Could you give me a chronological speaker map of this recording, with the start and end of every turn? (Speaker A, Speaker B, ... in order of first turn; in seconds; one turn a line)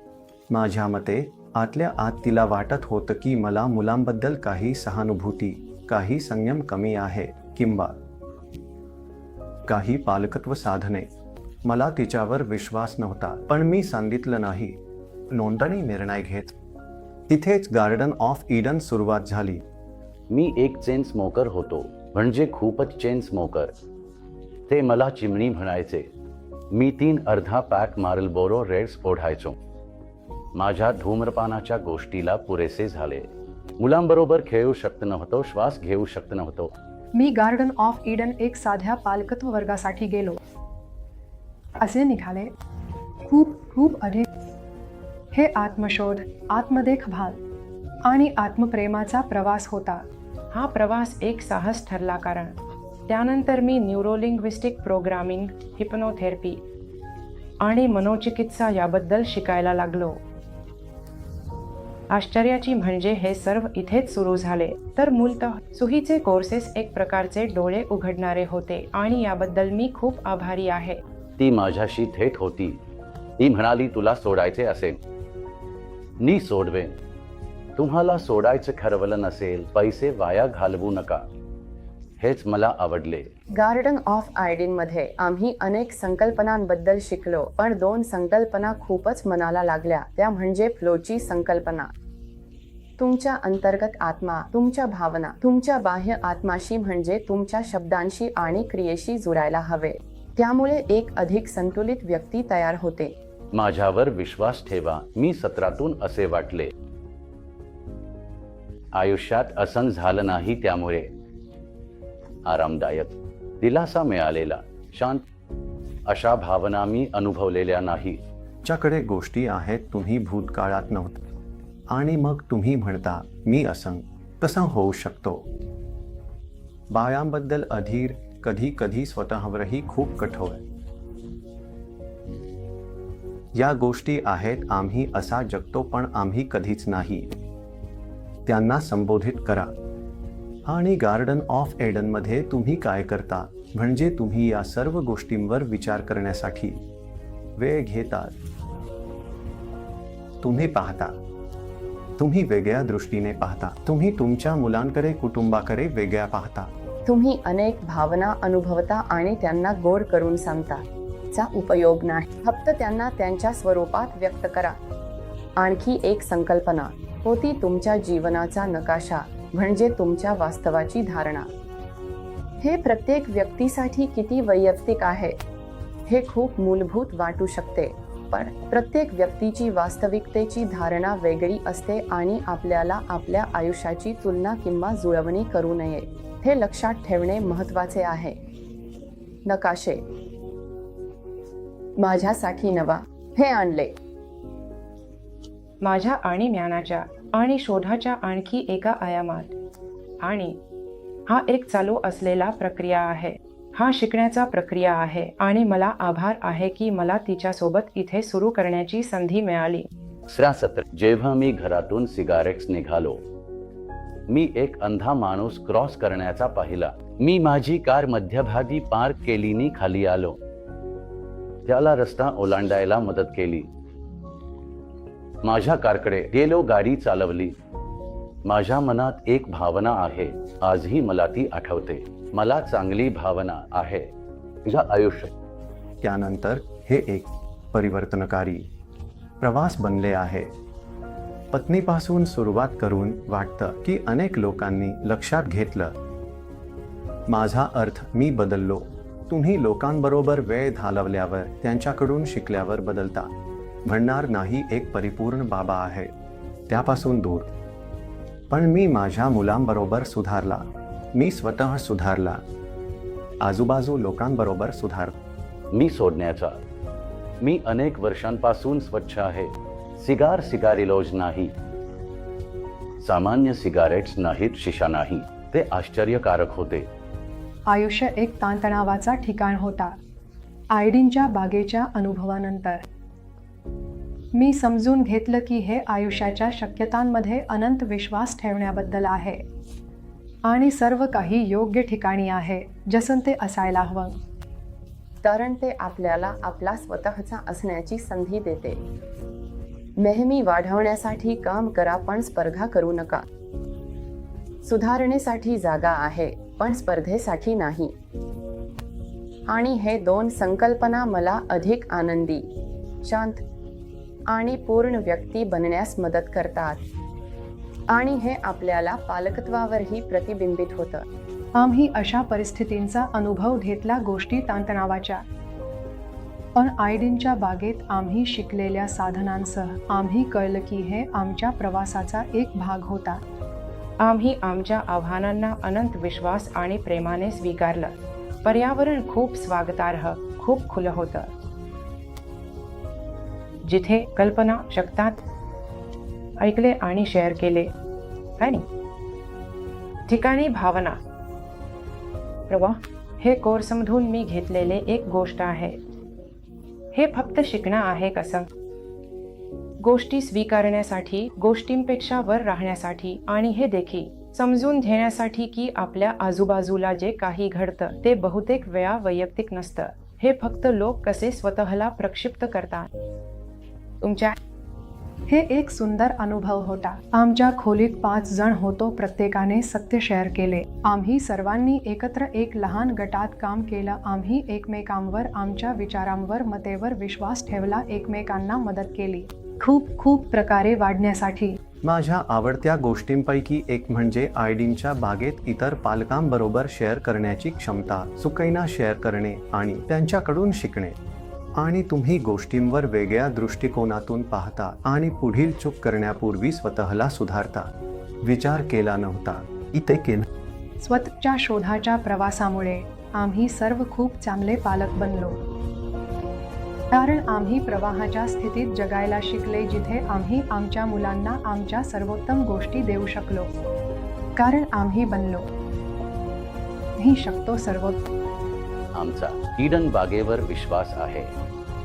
Speaker A: 0.5-8.0
Speaker A: 9.7-11.1
Speaker A: 11.7-14.8
Speaker A: 15.3-16.6
Speaker A: 17.3-19.6
Speaker B: 20.3-23.7
Speaker B: 24.7-26.1
Speaker B: 26.7-29.6
Speaker B: 30.6-33.3
Speaker B: 33.8-36.7
Speaker C: 37.1-40.4
Speaker C: 41.8-42.5
Speaker C: 43.3-44.3
Speaker C: 45.3-47.4
Speaker C: 48.0-50.0
Speaker D: 50.5-52.6
Speaker D: 53.1-56.6
Speaker D: 57.6-60.2
Speaker D: 62.1-71.0
Speaker B: 71.4-72.8
Speaker B: 73.4-75.0
Speaker B: 76.2-77.0
Speaker B: 77.8-81.2
Speaker B: 82.2-83.3
Speaker E: 83.6-91.9
Speaker E: 93.0-103.1
Speaker B: 103.5-106.7
Speaker B: 109.0-111.1
Speaker B: 112.5-115.2
Speaker B: 116.1-118.2
Speaker A: 118.6-121.2
Speaker A: 121.9-125.5
Speaker A: 126.9-130.6
Speaker A: 133.5-137.3
Speaker A: 138.5-139.7
Speaker A: 140.7-146.8
Speaker A: 147.6-148.3
Speaker A: 150.4-151.2
Speaker A: 152.2-156.7
Speaker E: 157.1-160.8
Speaker E: 161.3-164.8
Speaker E: 165.6-171.5
Speaker E: 172.6-175.3
Speaker E: 176.1-188.4
Speaker E: 189.5-190.0
Speaker E: 192.0-193.9
Speaker D: 195.8-199.5
Speaker D: 200.2-200.6
Speaker D: 201.3-209.9
Speaker B: 210.3-213.2
Speaker B: 214.3-220.4
Speaker B: 221.7-223.7
Speaker B: 225.4-227.6
Speaker B: 228.5-234.1
Speaker B: 234.7-235.3
Speaker A: 236.0-238.7
Speaker A: 239.4-240.5
Speaker A: 241.5-245.9
Speaker A: 247.3-253.3
Speaker A: 253.9-256.1
Speaker A: 256.7-257.5
Speaker A: 258.5-262.4
Speaker A: 263.4-265.1
Speaker B: 265.7-266.6
Speaker B: 267.4-271.5
Speaker B: 273.0-276.9
Speaker C: 277.7-280.0
Speaker C: 280.7-282.8
Speaker C: 284.3-289.4
Speaker C: 290.4-294.2
Speaker E: 295.2-298.8
Speaker E: 300.0-303.2
Speaker E: 304.7-307.9
Speaker E: 309.5-312.4
Speaker E: 313.0-313.4
Speaker E: 314.3-316.8
Speaker E: 317.9-321.0
Speaker C: 321.6-325.2
Speaker C: 326.6-333.2
Speaker D: 334.0-341.3
Speaker D: 343.6-345.2
Speaker D: 346.4-347.7
Speaker D: 348.4-348.6
Speaker D: 350.1-351.0
Speaker D: 352.5-355.8
Speaker D: 356.9-358.5
Speaker D: 359.8-372.9
Speaker D: 374.0-374.4
Speaker C: 375.3-391.6
Speaker A: 391.8-401.0
Speaker A: 401.6-407.7
Speaker A: 408.2-410.3
Speaker C: 410.8-415.4
Speaker C: 416.9-423.5
Speaker C: 424.4-425.5
Speaker C: 427.0-428.0
Speaker B: 428.9-431.3